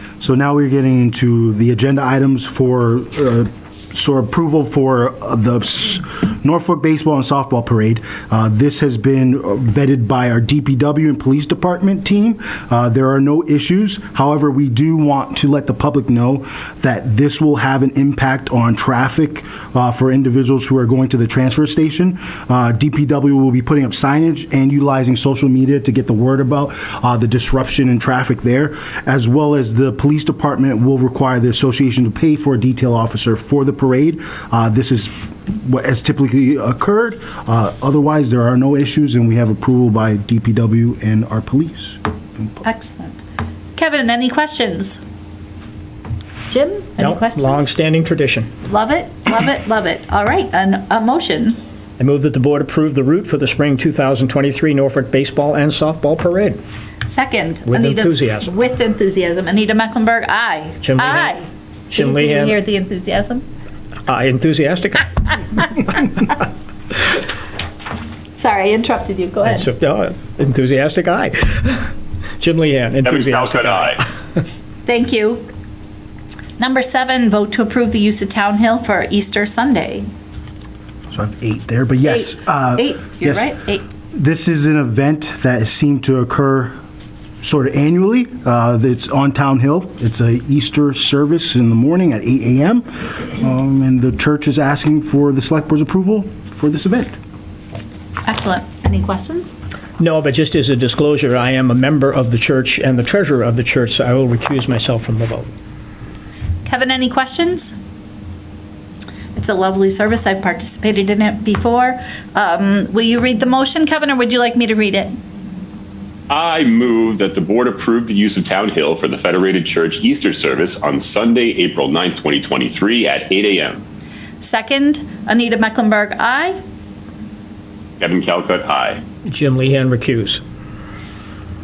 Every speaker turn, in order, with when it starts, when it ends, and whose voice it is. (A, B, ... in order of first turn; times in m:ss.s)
0:00.2-0:42.4 A
0:42.6-0:43.2 B
0:43.8-0:45.0 B
0:46.5-0:47.7 B
0:47.0-0:48.5 C
0:48.6-0:51.6 B
0:52.0-0:56.6 C
0:57.0-1:03.4 B
0:57.7-0:58.5 C
1:00.8-1:01.4 C
1:01.9-1:02.6 C
1:04.1-1:06.1 C
1:08.3-1:09.6 B
1:09.4-1:14.0 C
1:13.0-1:14.0 D
1:14.8-1:15.4 B
1:16.6-1:20.0 B
1:21.1-1:23.6 A
1:22.0-1:23.8 B
1:24.1-1:26.7 A
1:27.4-1:37.1 A
1:38.2-1:39.6 B
1:40.0-1:45.5 C
1:46.6-1:47.7 B
1:49.3-1:55.2 B
1:56.3-2:03.8 D
2:04.4-2:06.6 B
2:08.0-2:09.0 D
2:09.2-2:10.4 C